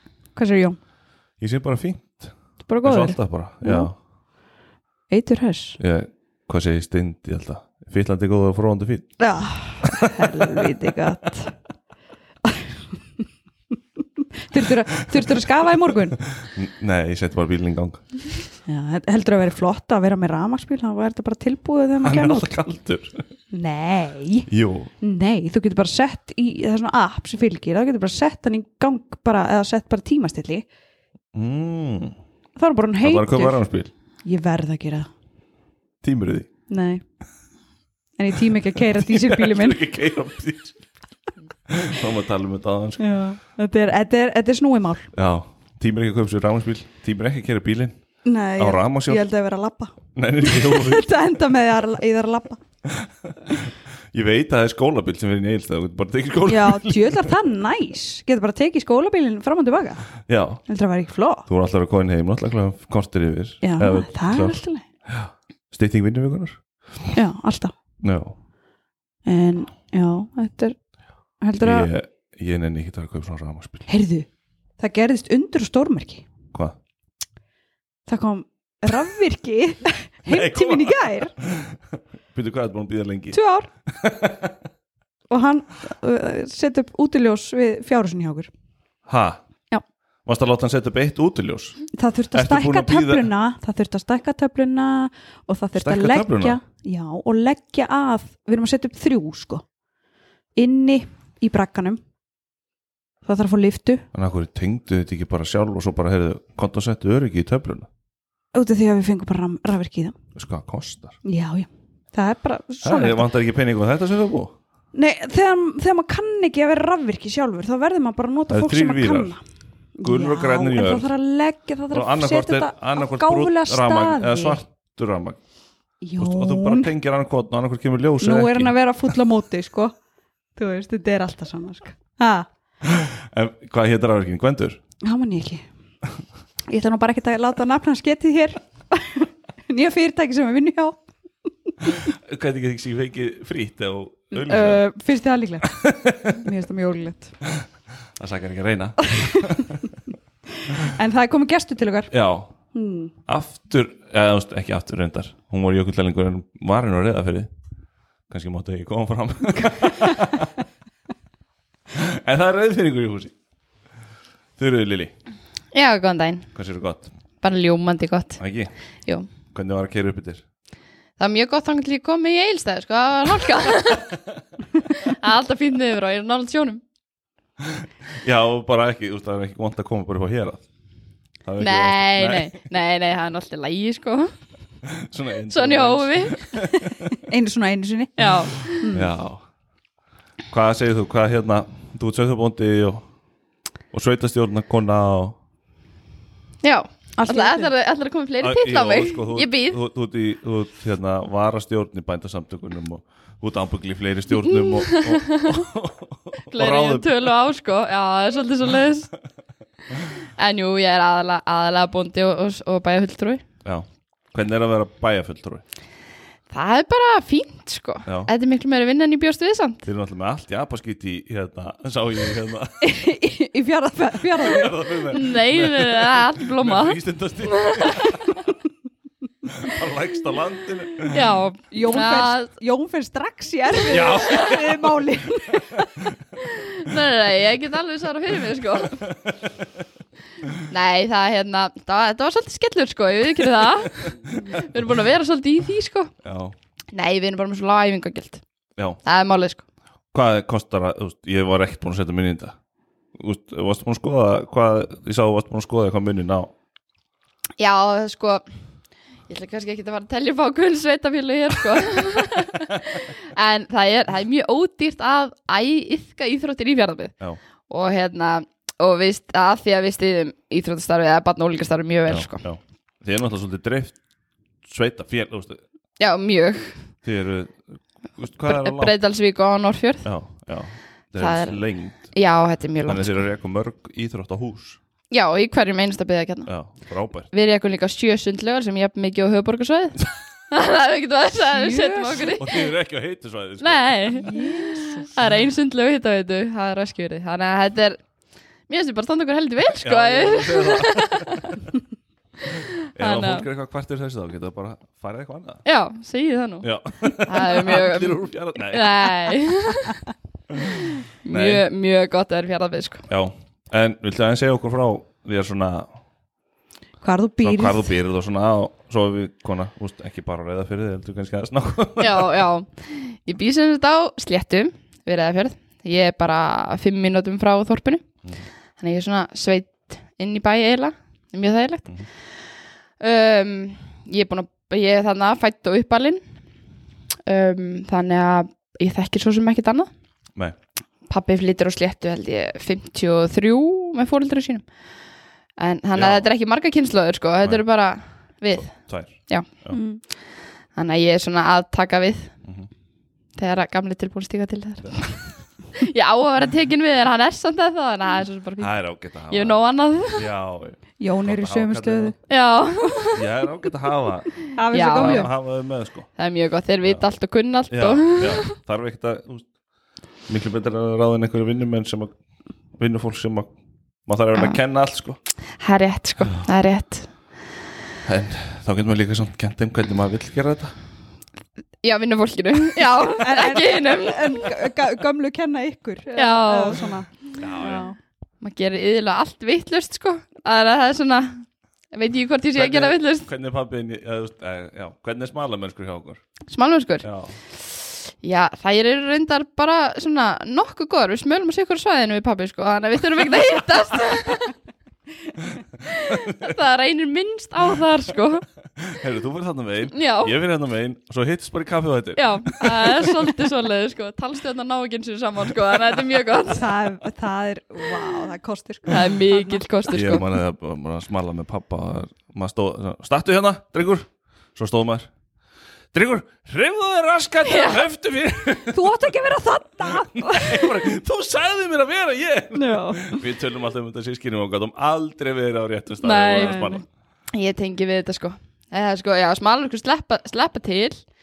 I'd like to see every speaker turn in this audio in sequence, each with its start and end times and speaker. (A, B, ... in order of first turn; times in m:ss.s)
0:00.4-0:00.8 A
0:01.4-0:04.0 B
0:02.6-0:03.9 A
0:05.1-0:05.8 A
0:05.8-0:09.1 B
0:09.2-0:11.5 A
0:09.8-0:10.6 B
0:12.4-0:13.2 A
0:14.4-0:16.2 A
0:15.1-0:18.0 B
0:18.7-0:22.5 A
0:22.0-0:23.3 B
0:23.5-0:24.5 A
0:24.5-0:24.9 B
0:25.0-0:30.6 A
0:31.3-0:32.2 B
0:32.6-0:33.6 A
0:33.0-0:33.9 B
0:34.2-0:35.1 A
0:36.0-0:36.5 B
0:36.7-0:37.0 A
0:38.2-0:39.8 A
0:38.7-0:40.8 B
0:41.7-0:43.2 B
0:43.0-0:45.1 A
0:45.1-0:48.0 B
0:48.2-0:52.6 A
0:48.6-0:49.2 B
0:50.1-0:51.1 B
0:52.8-0:57.4 B
0:56.5-1:00.1 A
1:00.3-1:00.6 B
1:00.7-1:01.5 A
1:01.5-1:07.1 B
1:03.6-1:04.8 A
1:07.1-1:07.7 A
1:08.0-1:08.4 B
1:09.2-1:10.8 A
1:11.4-1:11.9 A
1:11.6-1:13.9 B
1:13.9-1:14.3 A
1:14.8-1:16.2 A
1:18.1-1:21.3 A
1:20.3-1:24.6 B
1:23.3-1:23.7 A
1:25.3-1:28.5 A
1:29.1-1:29.4 B
1:30.2-1:31.8 B
1:31.9-1:39.6 A
1:32.3-1:33.3 B
1:35.8-1:36.6 B
1:40.6-1:42.0 A
1:43.2-1:44.0 A
1:44.1-1:47.9 B
1:48.5-1:50.2 A
1:50.3-1:51.2 B
1:51.2-1:53.3 A
1:52.8-1:54.6 B
1:54.9-1:59.4 A
1:58.5-1:59.3 B
2:00.0-2:04.6 A
2:00.0-2:01.1 B
2:01.9-2:05.4 B
2:06.0-2:06.9 A
2:06.2-2:09.2 B
2:08.2-2:09.9 A
2:10.6-2:12.5 A
2:12.8-2:14.8 B
2:15.0-2:15.6 A
2:16.7-2:21.0 A
2:22.0-2:24.8 B
2:24.3-2:27.3 A
2:25.7-2:26.5 B
2:28.2-2:29.9 B
2:29.0-2:29.5 A
2:30.6-2:32.1 A
2:32.1-2:32.5 B
2:32.7-2:33.1 A
2:33.3-2:37.5 B
2:38.3-2:40.5 B
2:41.9-2:43.3 B
2:44.6-2:45.1 B
2:45.7-2:46.5 C
2:46.5-2:47.1 B
2:47.4-2:48.4 C
2:48.4-2:48.7 B
2:49.5-2:50.4 B
2:51.2-2:54.2 C
2:54.9-2:56.8 C
2:57.6-3:00.6 B
3:01.4-3:02.6 B
3:01.6-3:04.3 C
3:04.8-3:07.2 B
3:05.5-3:06.4 C
3:07.1-3:09.1 A
3:08.2-3:08.8 C
3:08.9-3:09.4 B
3:10.5-3:13.0 B
3:13.9-3:15.4 B
3:16.6-3:19.8 C
3:17.2-3:17.7 A
3:18.4-3:27.1 B
3:24.5-3:25.6 C
3:26.5-3:29.1 C
3:30.4-3:33.4 C
3:33.6-3:35.6 B
3:36.5-3:39.8 C
3:38.0-3:38.3 B
3:39.8-3:42.9 B
3:42.8-3:44.8 A
3:44.4-3:48.4 B
3:45.1-3:48.2 C
3:49.4-3:51.3 B
3:51.0-3:52.5 C
3:51.7-3:56.1 A
3:53.9-3:56.2 B
3:56.4-3:59.0 C
3:59.0-3:59.7 B
4:00.6-4:06.1 C
4:04.3-4:04.6 B
4:06.2-4:06.5 B
4:06.9-4:08.4 C
4:09.0-4:09.6 C
4:10.1-4:12.6 B
4:13.1-4:16.5 B
4:17.6-4:18.4 C
4:19.3-4:27.1 C
4:27.7-4:32.4 C
4:32.1-4:34.0 B
4:34.6-4:35.6 B
4:36.0-4:36.9 C
4:37.0-4:37.6 B
4:38.2-4:38.9 B
4:38.4-4:40.0 C
4:40.0-4:42.1 B
4:41.2-4:43.2 C
4:42.8-4:44.8 B
4:45.1-4:46.5 C
4:46.4-4:47.3 B
4:47.3-4:52.7 C
4:51.4-4:52.2 A
4:52.3-4:54.2 B
4:53.6-4:54.3 C
4:54.2-4:55.2 A
4:55.1-4:58.0 C
4:58.7-5:01.6 C
4:59.7-5:01.6 B
5:02.4-5:03.5 C
5:02.9-5:05.6 B
5:05.6-5:06.7 C
5:06.6-5:09.3 B
5:07.2-5:10.0 C
5:10.5-5:11.6 B
5:11.2-5:13.0 C
5:13.1-5:15.9 B
5:17.0-5:17.9 A
5:17.4-5:22.4 B
5:22.0-5:28.0 C
5:28.8-5:31.9 C
5:33.0-5:36.2 C
5:37.3-5:39.9 C
5:41.1-5:44.6 C
5:45.6-5:49.5 C
5:46.0-5:46.3 B
5:48.6-5:49.8 B
5:49.7-5:50.0 A
5:50.8-5:52.3 C
5:52.4-5:52.7 B
5:53.4-5:55.2 C
5:55.8-5:58.7 C
5:58.6-5:59.6 B
5:59.3-6:00.3 C
6:00.1-6:02.1 B
6:01.0-6:02.1 A
6:02.3-6:03.2 C
6:03.1-6:06.1 B
6:04.5-6:05.3 A
6:04.7-6:05.3 C
6:06.2-6:08.5 C
6:07.7-6:09.5 B
6:10.3-6:12.1 B
6:12.8-6:13.5 B
6:14.1-6:15.2 B
6:15.6-6:17.1 C
6:18.0-6:20.7 B
6:21.8-6:24.5 C
6:23.0-6:28.0 A
6:26.1-6:26.8 C
6:27.4-6:27.8 B
6:28.4-6:33.3 C
6:32.5-6:36.2 B
6:36.5-6:37.0 C
6:37.0-6:37.3 B
6:37.7-6:44.5 C
6:45.8-6:48.4 C
6:46.1-6:46.3 B
6:48.8-6:53.1 B
6:49.9-6:50.3 C
6:52.2-6:56.8 C
6:56.5-6:59.6 A
6:58.9-7:00.2 C
6:59.9-7:05.1 B
7:05.9-7:09.2 B
7:07.5-7:07.8 C
7:08.7-7:10.9 A
7:09.8-7:16.8 B
7:12.5-7:13.2 A
7:16.0-7:16.8 C
7:16.3-7:16.8 A
7:17.3-7:21.0 C